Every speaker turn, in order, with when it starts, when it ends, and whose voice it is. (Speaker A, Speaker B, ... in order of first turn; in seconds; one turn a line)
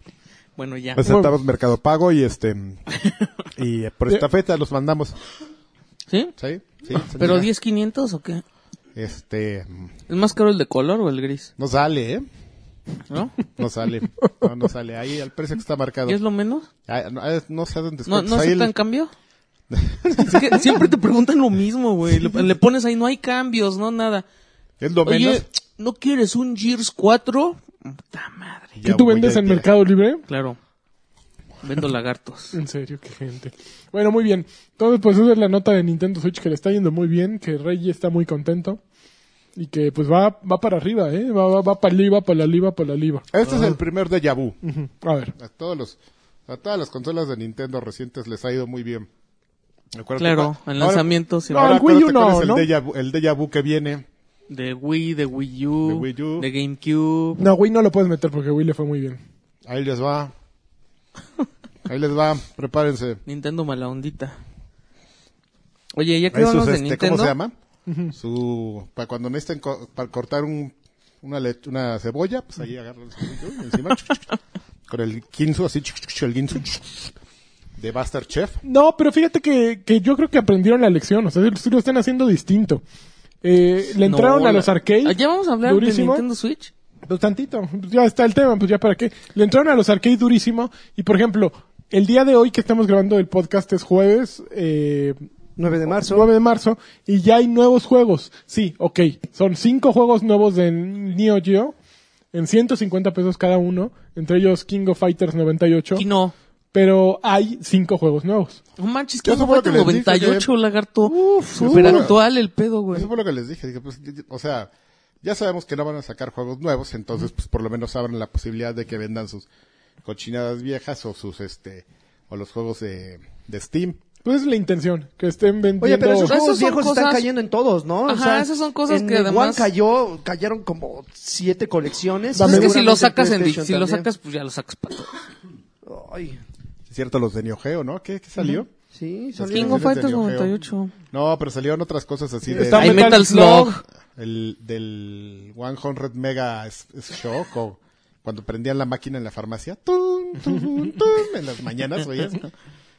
Speaker A: 0.6-1.1
Speaker B: 1.0-2.8
Speaker C: 1.1-1.3
Speaker B: 3.5-5.2
Speaker B: 6.4-7.5
Speaker A: 7.1-8.4
Speaker B: 8.9-9.9
Speaker A: 10.1-11.5
Speaker B: 11.6-12.3
Speaker A: 13.1-13.4
Speaker B: 13.6-16.2
Speaker A: 16.1-16.7
Speaker B: 16.9-18.7
Speaker A: 18.1-19.1
Speaker B: 19.7-20.6
Speaker A: 20.1-24.2
Speaker B: 24.8-25.4
Speaker A: 25.1-28.7
Speaker B: 28.8-29.7
Speaker C: 28.9-30.2
Speaker A: 30.3-30.6
Speaker A: 31.6-32.6
Speaker C: 32.5-38.8
Speaker C: 39.6-43.3
Speaker B: 43.3-44.6
Speaker C: 44.6-45.3
Speaker B: 45.4-49.1
Speaker B: 49.9-54.0
Speaker A: 50.2-51.8
Speaker C: 51.5-52.7
Speaker A: 54.5-57.5
Speaker B: 55.9-56.5
Speaker C: 57.4-59.2
Speaker B: 59.7-60.3
Speaker B: 61.9-63.2
Speaker A: 63.3-64.4
Speaker A: 65.9-67.3
Speaker B: 66.3-67.5
Speaker C: 67.9-68.1
Speaker B: 68.1-74.3
Speaker B: 74.9-77.1
Speaker B: 77.8-78.6
Speaker C: 78.6-82.8
Speaker C: 83.4-86.2
Speaker A: 84.0-86.7
Speaker C: 87.1-95.2
Speaker D: 95.6-96.3
Speaker C: 95.9-101.7
Speaker C: 102.3-106.0
Speaker A: 106.0-106.3
Speaker C: 106.7-108.6
Speaker A: 108.8-113.1
Speaker B: 109.2-110.5
Speaker B: 111.1-112.2
Speaker B: 112.9-114.7
Speaker B: 115.2-119.5
Speaker B: 120.0-124.0
Speaker C: 124.2-126.3
Speaker D: 125.8-134.1
Speaker A: 126.2-127.2
Speaker A: 128.1-129.7
Speaker C: 132.3-132.8
Speaker A: 132.4-135.1
Speaker D: 135.8-136.4
Speaker B: 136.9-138.7
Speaker D: 138.9-139.9
Speaker B: 139.4-140.5
Speaker A: 139.5-140.9
Speaker B: 141.1-143.3
Speaker C: 142.5-143.7
Speaker A: 142.6-143.8
Speaker B: 144.2-152.5